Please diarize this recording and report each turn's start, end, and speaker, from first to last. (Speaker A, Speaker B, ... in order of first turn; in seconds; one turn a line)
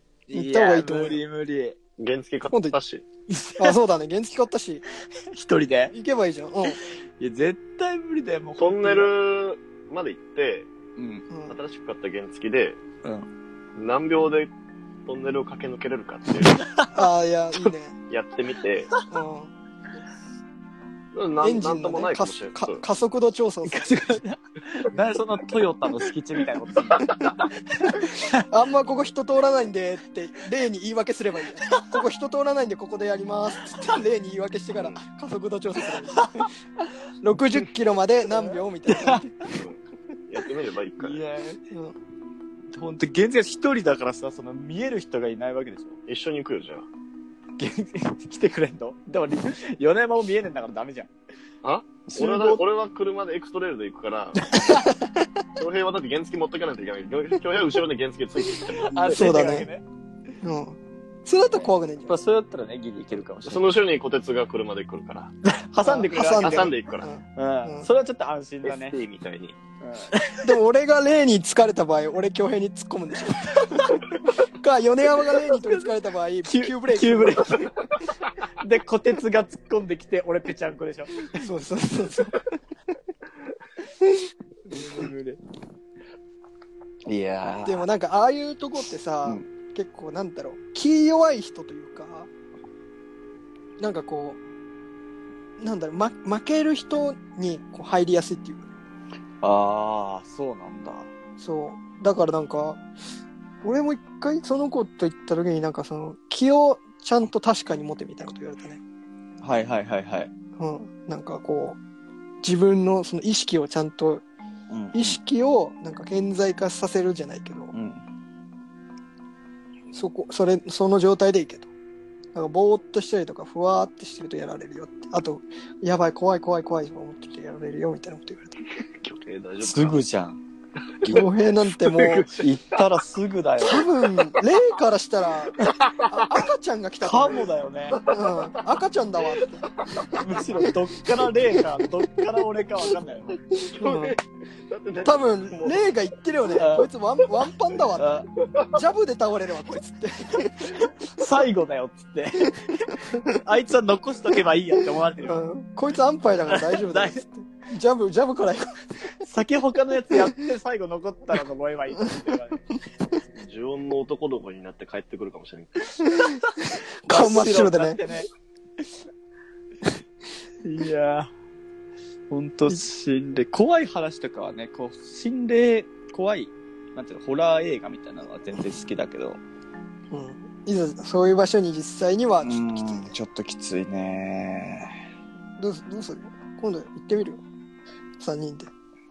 Speaker A: 0.3-1.8
Speaker B: 0.3-1.2
Speaker C: 2.0-3.0
Speaker B: 2.5-2.8
Speaker A: 3.3-3.8
Speaker B: 3.6-4.8
Speaker A: 5.3-5.9
Speaker B: 5.9-6.8
Speaker A: 7.2-9.1
Speaker C: 8.6-10.7
Speaker A: 11.0-11.2
Speaker B: 11.3-11.6
Speaker C: 11.5-12.8
Speaker C: 13.8-14.5
Speaker C: 15.1-16.6
Speaker A: 16.4-16.9
Speaker B: 16.9-17.9
Speaker C: 18.1-18.9
Speaker B: 19.1-19.5
Speaker C: 21.1-22.8
Speaker B: 21.4-24.1
Speaker A: 23.7-27.1
Speaker A: 28.1-28.4
Speaker B: 28.5-36.5
Speaker A: 31.7-31.9
Speaker A: 36.2-36.5
Speaker B: 37.2-39.3
Speaker A: 38.4-39.2
Speaker C: 39.5-41.2
Speaker A: 41.0-41.6
Speaker B: 41.7-42.0
Speaker A: 42.7-46.0
Speaker C: 46.1-46.9
Speaker A: 47.6-51.1
Speaker C: 51.6-54.6
Speaker A: 52.1-52.6
Speaker C: 55.6-59.3
Speaker A: 58.9-59.8
Speaker B: 59.1-59.7
Speaker B: 60.4-62.2
Speaker A: 61.5-63.7
Speaker C: 63.5-65.3
Speaker A: 65.5-66.7
Speaker B: 65.8-67.9
Speaker C: 66.2-67.1
Speaker A: 67.4-69.0
Speaker C: 68.6-69.6
Speaker A: 69.8-70.5
Speaker B: 70.4-77.7
Speaker A: 76.5-77.7
Speaker A: 78.6-81.4
Speaker B: 81.3-82.4
Speaker A: 84.7-85.4
Speaker A: 87.1-87.9
Speaker B: 87.7-92.3
Speaker B: 93.8-94.4
Speaker B: 95.6-98.7
Speaker A: 99.4-101.1
Speaker B: 101.4-102.8
Speaker B: 103.6-108.8
Speaker A: 109.4-110.3
Speaker B: 110.6-111.8
Speaker B: 112.4-114.2
Speaker A: 114.7-115.2
Speaker B: 114.9-117.7
Speaker A: 117.7-118.0
Speaker B: 119.9-121.7
Speaker B: 122.3-128.6
Speaker C: 128.8-130.0
Speaker A: 129.6-130.4
Speaker A: 131.0-131.3
Speaker B: 131.1-132.3
Speaker C: 131.8-132.8
Speaker A: 132.4-133.9
Speaker B: 133.6-137.5
Speaker A: 137.0-138.0
Speaker C: 137.9-138.6
Speaker B: 138.1-139.7
Speaker A: 140.1-143.4
Speaker B: 143.6-144.2
Speaker C: 143.7-145.9
Speaker B: 145.1-150.8
Speaker A: 146.6-146.9
Speaker A: 148.0-148.3
Speaker A: 151.1-155.4
Speaker B: 155.3-158.8
Speaker A: 156.5-157.2
Speaker A: 159.2-162.7
Speaker C: 163.4-166.1
Speaker B: 167.0-168.0
Speaker A: 167.1-168.3
Speaker A: 170.6-171.3
Speaker A: 172.3-179.4
Speaker B: 180.1-183.1
Speaker A: 182.4-184.9
Speaker B: 185.6-187.4
Speaker B: 188.2-188.7